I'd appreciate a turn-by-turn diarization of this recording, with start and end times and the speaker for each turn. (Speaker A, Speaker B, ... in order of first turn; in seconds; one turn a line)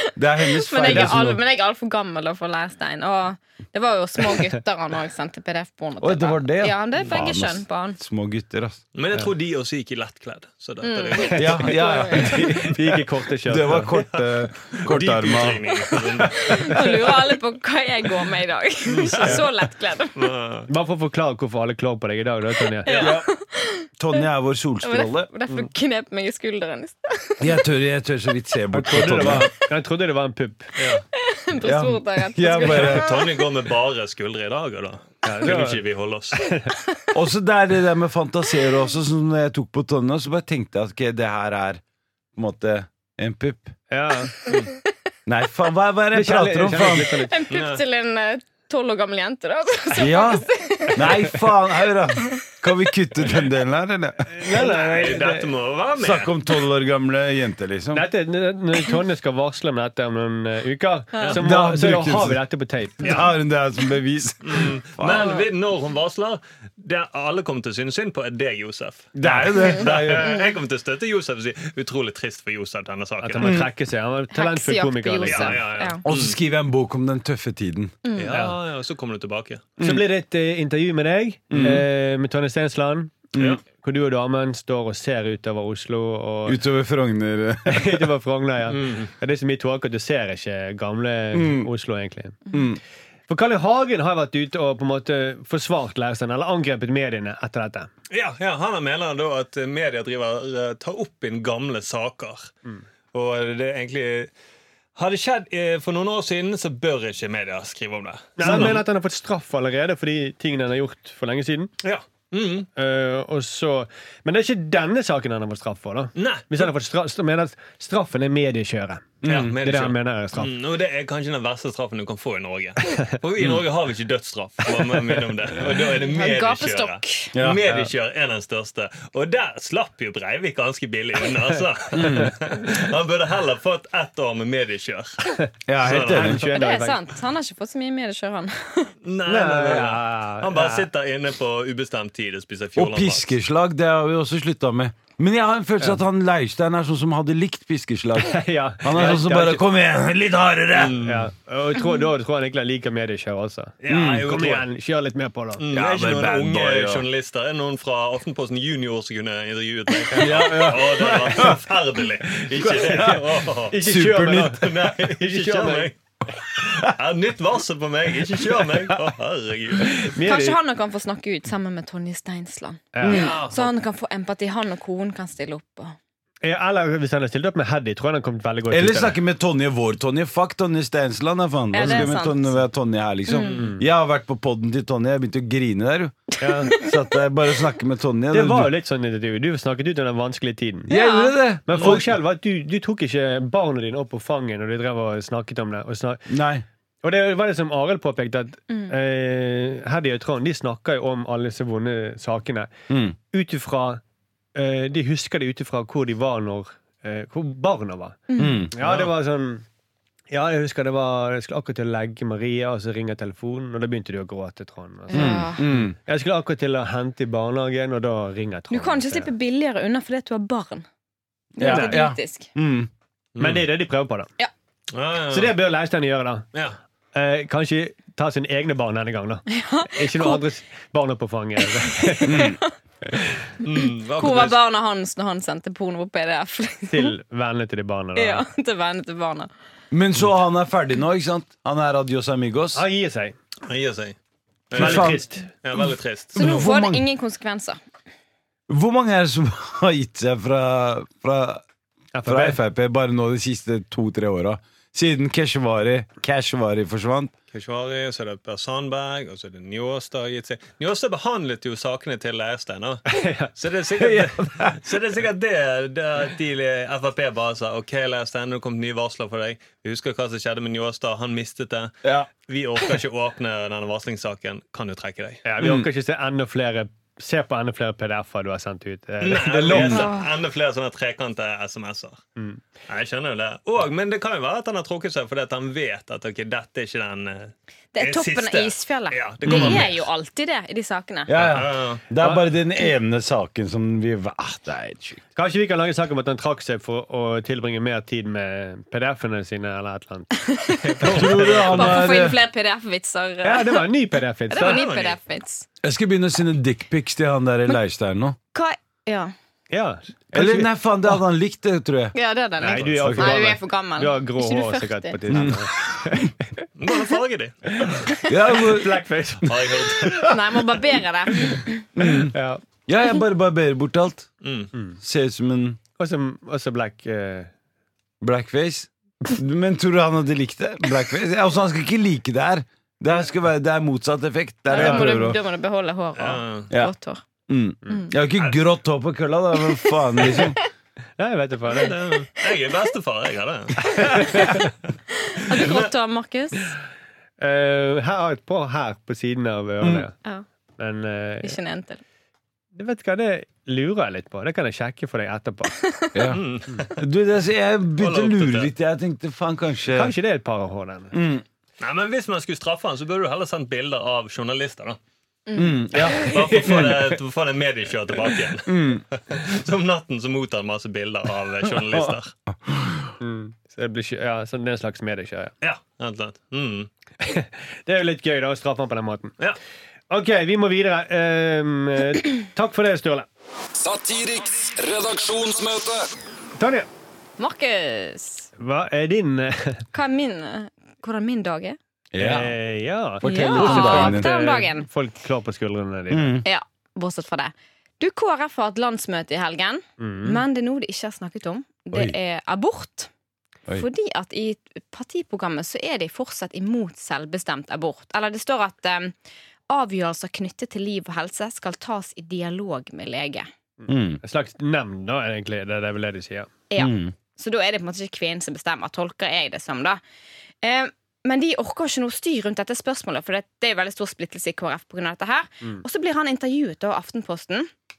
Speaker A: 0.1-1.4
Speaker B: 0.4-8.0
Speaker C: 0.8-1.3
Speaker A: 6.0-8.8
Speaker D: 8.9-11.7
Speaker B: 10.8-12.4
Speaker A: 11.3-12.8
Speaker C: 12.1-13.9
Speaker A: 13.4-16.8
Speaker D: 13.9-16.8
Speaker B: 16.4-20.3
Speaker D: 18.9-19.5
Speaker D: 20.1-20.7
Speaker C: 20.7-23.1
Speaker B: 22.8-24.2
Speaker D: 22.9-23.2
Speaker A: 22.9-23.3
Speaker A: 24.0-25.3
Speaker B: 24.8-27.6
Speaker A: 27.4-29.5
Speaker C: 28.7-30.7
Speaker D: 30.8-31.0
Speaker B: 31.1-33.3
Speaker A: 31.6-33.2
Speaker D: 32.6-36.5
Speaker C: 35.2-35.8
Speaker A: 37.1-41.8
Speaker A: 42.3-43.7
Speaker C: 43.9-44.4
Speaker A: 45.2-47.2
Speaker C: 46.1-47.4
Speaker B: 47.2-51.4
Speaker D: 47.5-47.8
Speaker A: 50.0-58.1
Speaker C: 54.2-55.4
Speaker D: 54.6-56.3
Speaker C: 57.9-63.2
Speaker B: 61.1-61.4
Speaker A: 61.3-62.4
Speaker A: 63.0-65.3
Speaker D: 64.4-73.6
Speaker A: 69.2-70.3
Speaker C: 73.2-75.6
Speaker A: 73.4-73.7
Speaker B: 74.3-76.0
Speaker D: 75.2-76.4
Speaker A: 76.0-77.9
Speaker B: 78.0-78.3
Speaker D: 78.2-79.7
Speaker A: 79.8-80.0
Speaker C: 79.8-86.6
Speaker A: 81.5-81.8
Speaker A: 83.3-83.6
Speaker A: 86.5-88.1
Speaker C: 87.7-92.4
Speaker D: 88.7-89.1
Speaker A: 91.3-91.7
Speaker A: 92.5-92.8
Speaker C: 93.3-97.9
Speaker D: 98.1-102.5
Speaker D: 103.1-104.3
Speaker D: 105.0-108.8
Speaker C: 108.4-111.7
Speaker D: 111.8-112.7
Speaker C: 112.8-120.5
Speaker D: 116.1-116.7
Speaker A: 119.2-119.5
Speaker D: 119.2-135.3
Speaker B: 125.9-127.3
Speaker A: 127.3-127.6
Speaker A: 131.9-132.3
Speaker A: 135.7-136.4
Speaker D: 135.8-136.4
Speaker C: 135.8-137.0
Speaker B: 136.3-138.9
Speaker D: 139.0-143.3
Speaker C: 139.2-140.9
Speaker A: 142.8-151.1
Speaker C: 148.2-149.6
Speaker D: 148.9-149.2
Speaker D: 150.7-151.2
Speaker C: 151.0-155.6
Speaker D: 153.8-154.7
Speaker A: 153.9-154.3
Speaker D: 155.6-170.1
Speaker A: 155.7-157.1
Speaker C: 160.1-160.6
Speaker A: 160.1-161.6
Speaker A: 162.5-164.8
Speaker C: 162.6-165.9
Speaker C: 169.9-170.6
Speaker B: 170.2-175.9
Speaker C: 172.9-173.3
Speaker A: 173.0-173.4
Speaker D: 173.1-173.7
Speaker C: 176.4-179.2
Speaker A: 178.7-188.7
Speaker B: 181.7-182.6
Speaker B: 183.3-183.6
Speaker C: 183.6-183.8
Speaker C: 186.4-186.7
Speaker C: 188.3-190.9
Speaker A: 190.9-192.2
Speaker B: 190.9-191.3
Speaker C: 191.7-196.3
Speaker A: 196.3-196.6
Speaker C: 197.0-202.7
Speaker A: 202.9-203.2
Speaker C: 203.3-204.0
Speaker C: 204.5-209.6
Speaker B: 208.3-208.6
Speaker A: 208.4-208.7
Speaker D: 208.8-209.1
Speaker C: 210.3-219.3
Speaker B: 215.1-215.6
Speaker A: 215.1-215.9
Speaker B: 218.7-220.8
Speaker B: 221.6-222.5
Speaker A: 221.6-222.9
Speaker C: 221.6-222.0
Speaker D: 223.3-223.6
Speaker C: 223.4-224.3
Speaker D: 224.9-225.5
Speaker C: 225.3-226.5
Speaker C: 227.1-232.5
Speaker B: 229.5-230.4
Speaker B: 232.0-232.6
Speaker A: 232.2-232.6
Speaker D: 233.6-234.6
Speaker B: 233.8-237.2
Speaker C: 236.9-238.4
Speaker B: 238.1-239.5
Speaker A: 239.9-242.8
Speaker C: 242.7-243.3
Speaker D: 243.7-244.2
Speaker D: 244.7-246.4
Speaker C: 244.7-245.5
Speaker A: 244.7-245.2
Speaker A: 246.3-247.0
Speaker B: 246.3-247.8
Speaker A: 248.7-251.6
Speaker C: 252.1-252.6
Speaker A: 252.2-257.3
Speaker D: 257.5-271.9
Speaker C: 263.1-263.5
Speaker A: 264.0-264.8
Speaker D: 272.4-275.4
Speaker C: 275.4-280.1
Speaker A: 275.6-275.9
Speaker D: 279.2-282.2
Speaker A: 279.6-280.1
Speaker B: 279.9-280.3
Speaker D: 282.9-290.0
Speaker B: 287.9-291.4
Speaker A: 289.4-289.8
Speaker A: 291.3-295.2
Speaker D: 291.4-292.0
Speaker C: 295.4-300.4
Speaker B: 300.5-303.9
Speaker D: 300.8-302.1
Speaker A: 301.0-302.4
Speaker C: 303.4-304.8
Speaker B: 304.5-305.6
Speaker D: 304.5-305.2
Speaker A: 305.8-308.4
Speaker B: 308.5-309.3
Speaker C: 309.7-311.2
Speaker A: 310.3-312.1
Speaker B: 312.1-315.5
Speaker C: 312.6-316.6
Speaker A: 312.7-313.4
Speaker A: 315.3-316.2
Speaker D: 316.8-318.1
Speaker A: 318.3-319.1
Speaker C: 318.4-319.7
Speaker D: 319.4-320.3
Speaker B: 320.2-321.9
Speaker A: 321.9-322.3
Speaker C: 322.3-322.6
Speaker A: 322.9-324.3
Speaker D: 324.4-324.7
Speaker A: 325.0-325.8
Speaker C: 326.0-327.5
Speaker A: 328.2-335.4
Speaker B: 334.7-337.2
Speaker C: 334.8-335.1
Speaker D: 336.1-336.7
Speaker A: 337.5-340.6
Speaker B: 340.2-340.5
Speaker C: 341.2-341.9
Speaker D: 341.7-344.6
Speaker C: 343.9-344.6
Speaker B: 345.3-346.7
Speaker D: 345.5-345.9
Speaker C: 347.4-350.1
Speaker A: 349.8-350.1
Speaker C: 350.8-351.6
Speaker B: 351.4-352.0
Speaker C: 352.7-355.7
Speaker B: 355.8-356.2
Speaker A: 356.1-356.4
Speaker D: 356.3-357.0
Speaker A: 357.0-360.1
Speaker D: 358.0-358.7
Speaker C: 359.9-361.1
Speaker A: 361.1-361.4
Speaker D: 361.8-365.0
Speaker B: 365.5-366.3
Speaker A: 365.6-367.1
Speaker D: 366.2-372.3
Speaker A: 368.6-369.0
Speaker A: 371.7-373.1
Speaker C: 373.2-375.5
Speaker D: 375.6-376.9
Speaker C: 377.2-379.3
Speaker C: 380.1-383.2
Speaker E: 383.8-386.1
Speaker C: 386.6-386.9
Speaker B: 387.4-388.5
Speaker C: 388.6-389.8
Speaker B: 389.9-391.8
Speaker A: 392.1-392.5
Speaker C: 392.2-396.4
Speaker A: 393.2-394.3
Speaker B: 393.2-394.9
Speaker A: 396.1-396.4
Speaker B: 396.4-403.1
Speaker C: 400.0-400.4
Speaker A: 401.9-402.2
Speaker B: 403.7-409.1
Speaker B: 409.7-413.5
Speaker C: 413.8-416.5
Speaker A: 413.9-414.2
Speaker B: 416.7-420.0
Speaker A: 416.8-417.1
Speaker B: 420.6-427.7